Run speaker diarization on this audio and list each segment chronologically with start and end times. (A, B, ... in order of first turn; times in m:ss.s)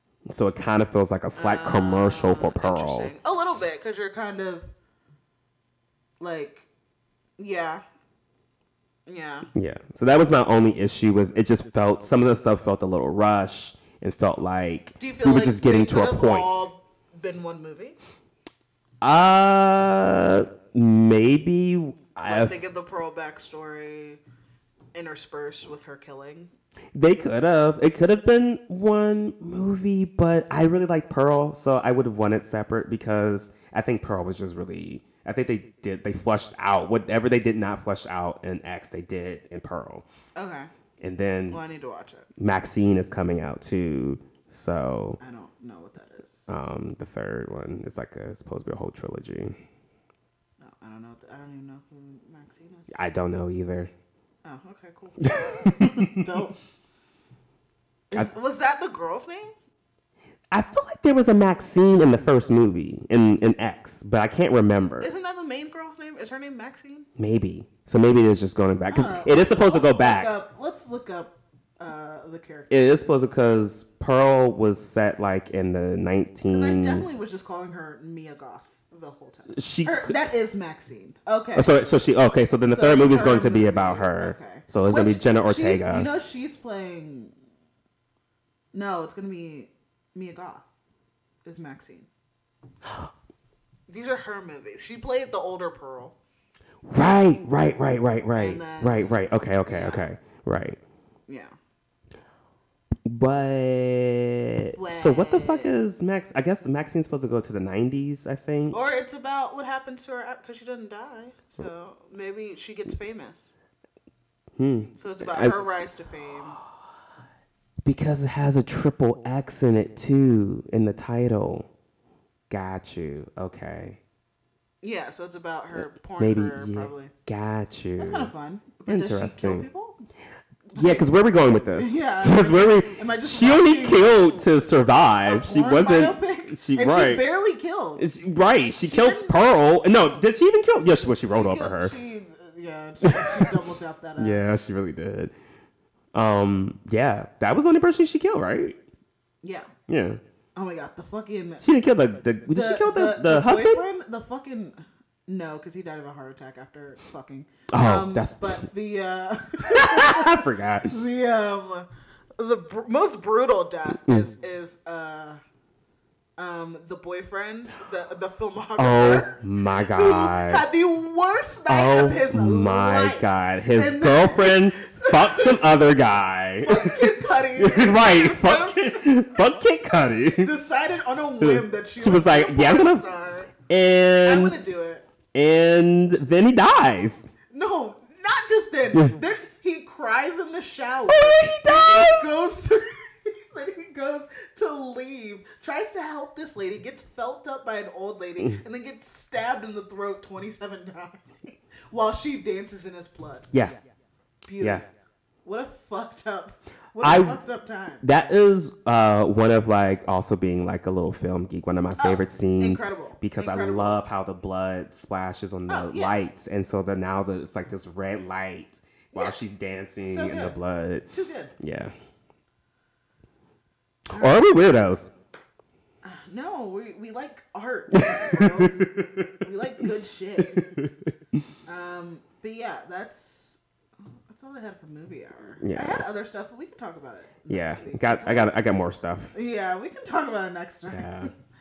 0:00.2-0:03.1 A
0:01.4-0:04.7 B
0:06.2-0:06.7 B
0:07.4-0:07.8 B
0:09.0-0:09.5 B
0:09.5-0:16.6 A
0:15.0-0:18.0 B
0:19.0-0:22.6 A
0:22.2-0:24.2 B
0:24.9-0:26.5 B
0:26.9-0:40.0 A
0:40.4-0:40.7 B
0:41.0-0:41.6 A
0:41.5-0:42.3 B
0:42.4-0:45.2 A
0:45.2-0:46.5 B
0:46.5-0:49.5 A
0:50.6-0:53.0 B
0:52.9-0:53.9 A
0:54.4-0:56.6 B
0:55.2-0:56.2 A
0:58.1-0:59.5 B
1:00.5-1:05.1 A
1:05.0-1:07.1 B
1:07.2-1:10.3 A
1:08.9-1:13.0 B
1:12.7-1:17.0 A
1:16.5-1:22.1 B
1:19.5-1:20.2 A
1:21.5-1:26.1 A
1:22.6-1:27.3 B
1:28.7-1:30.7 B
1:31.4-1:32.1 B
1:33.9-1:36.1 B
1:36.8-1:40.8 A
1:38.4-1:40.0 B
1:41.3-1:41.5 B
1:43.0-1:48.8 A
1:44.7-1:45.8 B
1:48.7-1:53.5 B
1:54.6-1:55.5 A
1:55.0-1:56.6 B
1:57.8-2:01.7 A
2:02.5-2:04.0 A
2:04.8-2:07.1 B
2:05.8-2:08.3 A
2:08.0-2:10.0 B
2:08.9-2:09.6 A
2:10.7-2:11.1 B
2:10.8-2:17.2 A
2:11.8-2:14.2 B
2:15.2-2:18.0 B
2:18.0-2:21.9 A
2:18.8-2:19.5 B
2:21.3-2:24.6 B
2:23.0-2:23.5 A
2:24.2-2:25.3 A
2:26.1-2:28.8 A
2:29.4-2:29.7 B
2:29.9-2:30.2 A
2:30.5-2:31.6 B
2:31.6-2:33.8 A
2:32.5-2:41.8 B
2:37.7-2:38.6 A
2:39.7-2:40.9 A
2:42.4-2:45.4 B
2:43.9-2:44.3 A
2:46.4-2:55.6 B
2:48.8-2:50.6 A
2:51.7-3:00.5 A
2:56.6-2:59.1 B
3:00.4-3:03.5 B
3:01.4-3:03.0 A
3:03.7-3:04.6 A
3:04.2-3:05.0 B
3:05.3-3:07.2 A
3:07.5-3:23.5 B
3:11.1-3:12.4 A
3:24.5-3:24.8 B
3:25.4-3:28.0 B
3:27.0-3:27.4 A
3:28.0-3:41.1 A
3:32.0-3:34.0 B
3:35.7-3:36.1 B
3:39.1-3:39.4 B
3:40.0-3:40.6 B
3:41.1-3:41.5 B
3:41.6-3:41.9 A
3:44.1-3:44.4 B
3:44.1-3:45.1 A
3:46.0-3:50.6 B
3:47.9-3:49.3 A
3:50.5-3:51.1 A
3:51.6-3:53.6 B
3:54.3-3:58.5 B
3:55.6-3:56.0 A
3:57.5-3:59.3 A
3:59.3-4:01.3 B
4:00.9-4:01.3 A